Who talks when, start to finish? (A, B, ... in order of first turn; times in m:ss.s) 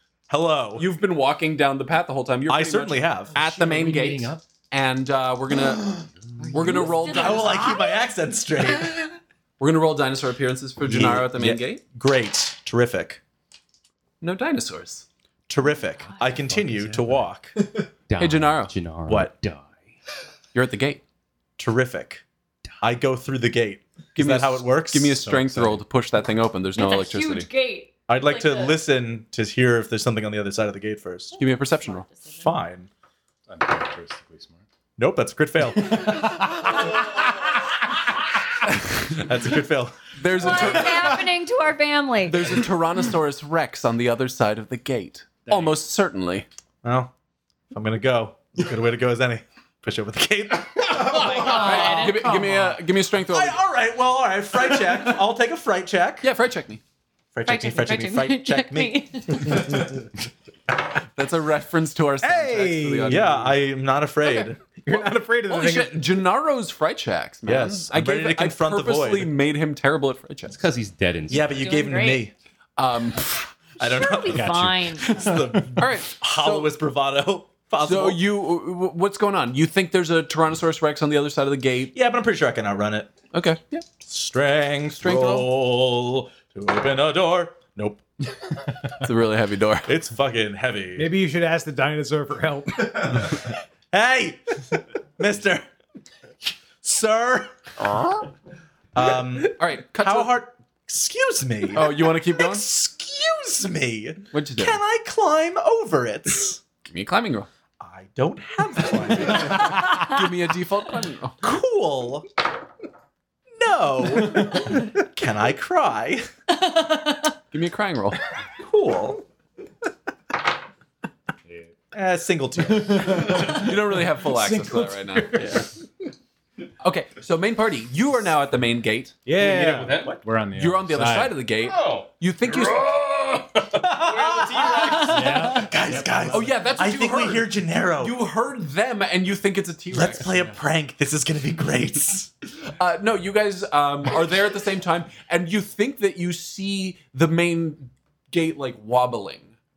0:00.3-0:00.9 A
0:00.8-0:07.6 B
0:02.5-0:03.3 A
0:03.3-0:04.4 C
0:06.4-0:08.1 D
0:07.1-0:09.1 A
0:09.6-0:11.8 B
0:10.8-0:13.2 A
0:14.2-0:15.0 B
0:15.5-0:17.5 A
0:16.2-0:17.2 C
0:18.1-0:19.7 E
0:18.2-0:18.7 B
0:19.1-0:19.3 A
0:20.5-0:21.0 B
0:21.6-0:22.2 A
0:22.8-0:25.7 A
0:24.1-0:27.5 B
0:26.8-0:28.8 D
0:28.1-0:31.4 A
0:31.4-0:32.0 B
0:31.4-0:32.5 D
0:32.4-0:32.9 A
0:33.5-0:34.6 C
0:35.0-0:36.6 A
0:35.9-0:36.8 C
0:39.1-0:40.8 A
0:40.2-0:41.2 B
0:40.4-0:42.6 D
0:42.2-0:46.4 B
0:45.5-0:45.8 C
0:46.8-0:47.1 A
0:47.7-0:52.4 A
0:50.9-0:52.3 D
0:51.1-0:53.6 B
0:53.2-0:56.3 A
0:56.2-0:56.8 B
0:57.3-0:59.9 A
0:57.4-0:59.6 D
1:01.2-1:03.6 B
1:02.2-1:03.2 F
1:03.0-1:04.6 A
1:04.2-1:10.6 B
1:04.8-1:06.0 F
1:07.4-1:09.3 A
1:10.5-1:11.6 E
1:11.3-1:12.3 A
1:11.3-1:12.2 D
1:12.8-1:13.5 B
1:13.8-1:18.2 A
1:13.8-1:15.3 D
1:14.2-1:15.8 C
1:15.8-1:16.7 B
1:17.8-1:21.9 B
1:21.9-1:23.1 A
1:23.3-1:23.8 B
1:24.0-1:28.0 A
1:25.0-1:25.5 B
1:29.0-1:29.9 B
1:29.8-1:31.1 A
1:31.0-1:33.4 F
1:33.0-1:35.6 A
1:36.8-1:37.5 A
1:38.9-1:46.6 A
1:39.3-1:40.4 B
1:41.7-1:42.7 B
1:44.3-1:44.8 B
1:46.8-1:47.5 B
1:47.8-1:50.0 A
1:49.4-1:51.5 B
1:51.4-1:52.3 A
1:53.5-1:56.3 A
1:56.6-1:57.3 D
1:57.5-1:58.2 B
1:58.6-1:59.2 A
2:01.9-2:03.7 A
2:02.8-2:03.6 C
2:03.2-2:05.4 B
2:04.4-2:05.5 C
2:05.3-2:05.7 A
2:06.8-2:09.2 B
2:09.2-2:10.0 F
2:09.3-2:10.2 E
2:10.2-2:11.3 C
2:10.6-2:12.9 B
2:11.6-2:15.6 E
2:13.7-2:18.2 A
2:15.0-2:16.4 C
2:16.3-2:20.2 B
2:19.9-2:22.3 A
2:22.7-2:29.5 B